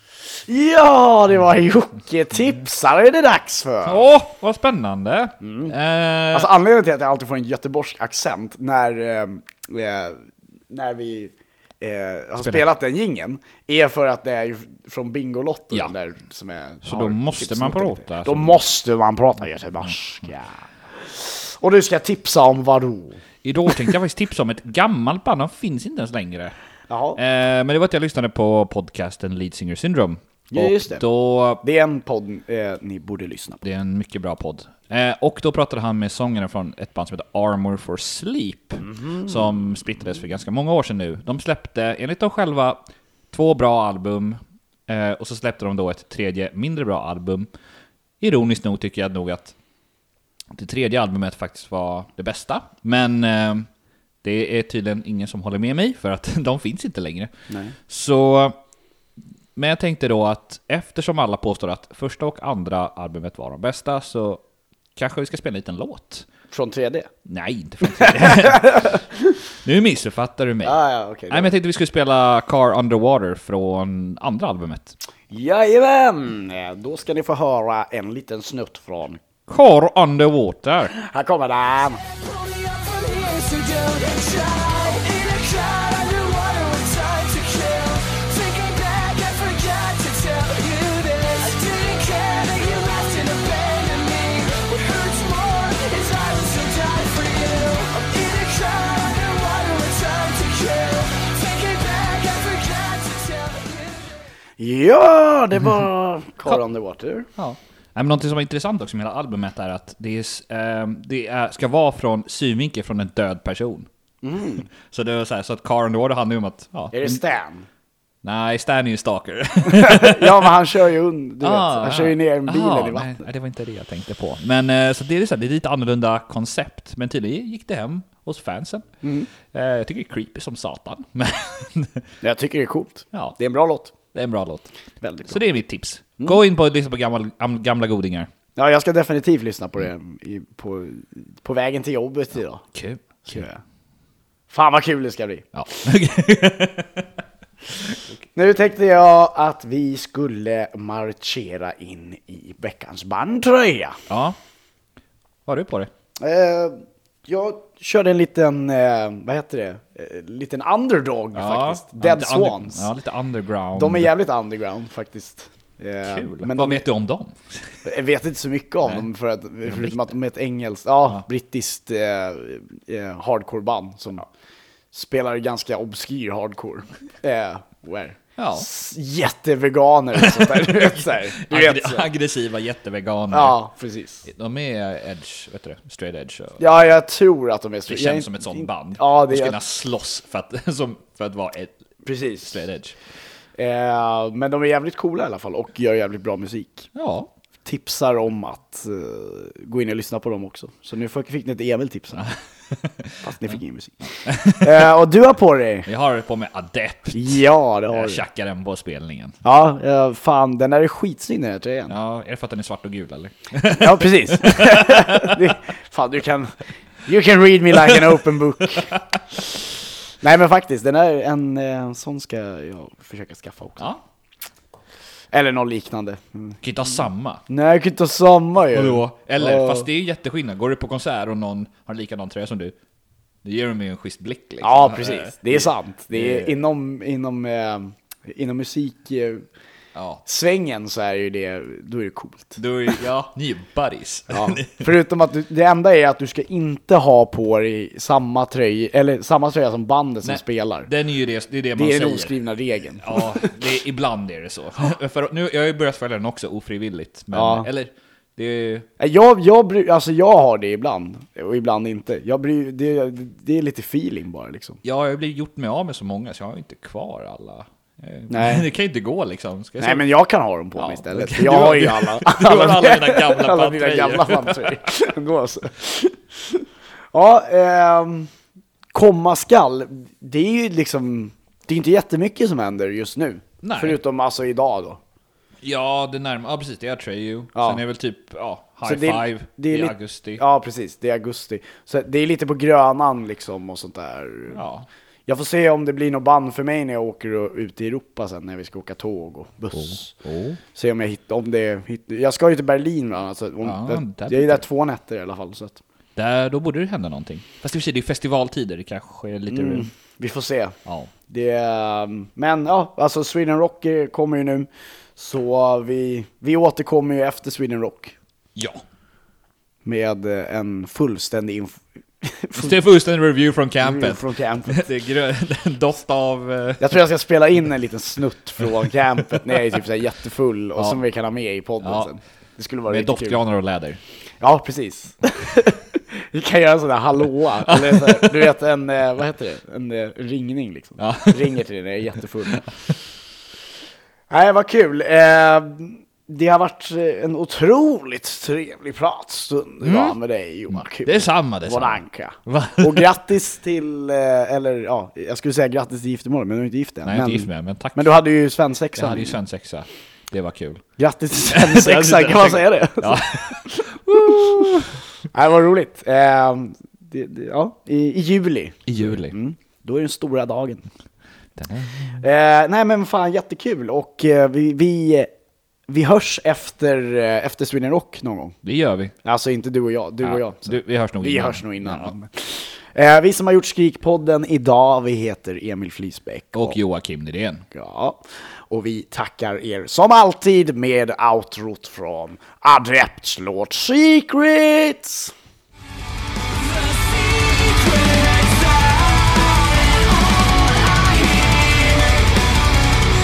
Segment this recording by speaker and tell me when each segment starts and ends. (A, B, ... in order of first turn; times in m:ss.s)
0:00.4-0:04.1 A
0:03.8-0:06.5 B
0:05.4-0:05.8 A
0:06.3-0:23.2 A
0:12.4-0:12.6 B
0:16.8-0:18.6 B
0:23.4-0:26.5 B
0:26.9-0:27.2 A
0:27.2-0:31.6 B
0:30.5-0:31.0 A
0:31.6-0:33.6 A
0:33.6-0:47.5 B
0:38.8-0:39.5 A
0:48.2-0:49.5 B
0:50.5-0:53.7 B
0:54.2-0:58.6 B
0:57.5-0:57.8 A
0:59.6-1:04.4 B
1:05.0-1:06.3 B
1:06.5-1:07.1 A
1:07.2-1:09.0 B
1:07.9-1:09.1 A
1:09.6-1:10.8 B
1:10.6-1:11.5 A
1:11.3-1:15.0 B
1:15.3-1:19.2 A
1:19.5-1:20.9 B
1:20.9-1:22.0 A
1:22.2-1:44.2 C
1:44.6-1:47.3 A
1:47.4-1:53.9 B
1:54.2-1:54.7 A
1:54.7-1:57.2 B
1:56.9-1:57.7 A
1:58.2-2:00.5 B
1:59.6-2:03.2 A
2:01.4-2:08.9 B
2:09.0-2:09.3 A
2:09.4-2:12.0 B
2:12.2-2:13.9 A
2:14.1-2:14.7 B
2:15.0-2:15.4 A
2:15.3-2:18.3 B
2:18.6-2:22.6 A
2:22.7-2:23.4 B
2:23.2-2:23.6 A
2:24.5-2:25.5 A
2:25.5-2:27.1 B
2:27.7-2:28.1 B
2:28.3-2:34.0 A
2:34.1-2:34.4 B
2:35.5-2:35.9 B
2:36.2-2:42.9 A
2:41.3-2:44.1 B
2:43.8-2:46.8 A
2:46.0-2:47.8 B
2:47.8-2:54.2 A
2:49.6-2:50.1 B
2:54.9-3:02.0 A
2:58.4-2:58.7 B
3:00.2-3:03.6 B
3:03.3-3:04.3 A
3:04.2-3:06.6 B
3:06.6-3:09.6 A
3:07.9-3:11.8 B
3:12.0-3:12.6 A
3:12.4-3:13.0 B
3:13.6-3:16.9 A
3:17.0-3:17.3 B
3:17.6-3:22.3 A
3:22.2-3:23.3 B
3:23.2-3:25.9 A
3:24.2-3:24.9 B
3:25.9-3:29.4 B
3:27.1-3:28.2 A
3:29.4-3:32.0 A
3:31.9-3:35.5 B
3:33.7-3:38.9 A
3:40.2-3:43.9 A
3:45.3-3:46.6 A
3:46.6-3:47.4 B
3:47.5-3:49.9 A
3:48.7-3:52.8 B
3:53.4-3:56.5 B
3:54.6-3:59.5 A
4:00.0-4:00.2 B
4:00.2-4:02.6 A
4:02.6-4:04.9 B
4:04.3-4:10.9 A
4:10.2-4:12.4 B
4:11.8-4:13.6 A
4:13.0-4:18.9 B
4:17.3-4:17.7 A
4:19.0-4:24.8 A
4:24.8-4:30.0 B
4:28.3-4:28.7 A
4:29.8-4:38.3 A
4:30.8-4:34.8 B
4:38.9-4:45.0 A
4:43.6-4:44.0 B
4:45.6-4:50.4 B
4:47.5-4:47.8 A
4:48.8-4:54.6 A
4:54.5-4:54.9 B
4:55.3-5:00.1 A
4:59.7-5:00.6 B
5:00.7-5:05.8 A
5:03.6-5:04.6 B
5:06.2-5:09.9 B
5:09.5-5:10.8 A
5:10.8-5:11.1 B
5:11.3-5:18.1 A
5:18.6-5:18.8 B
5:19.8-5:22.8 A
5:22.6-5:27.0 B
5:23.8-5:24.9 A
5:26.8-5:33.4 A
5:29.3-5:29.8 B
5:30.8-5:31.0 B
5:31.8-5:32.1 B
5:32.9-5:34.0 B
5:34.4-5:42.7 A
5:37.6-5:38.5 B
5:41.0-5:41.6 B
5:44.3-5:59.3 A
5:49.8-5:50.2 B
5:50.7-5:53.1 B
5:57.0-5:58.1 B
5:59.0-6:00.8 B
6:01.0-6:04.8 A
6:01.5-6:05.0 B
6:05.3-6:10.8 A
6:08.9-6:09.3 B
6:11.6-6:12.1 B
6:12.1-6:15.3 A
6:15.9-6:18.6 A
6:18.6-6:19.1 B
6:19.2-6:26.8 A
6:20.2-6:22.1 B
6:26.5-6:27.6 B
6:27.7-6:28.2 A
6:28.7-6:35.3 A
6:36.5-6:42.3 C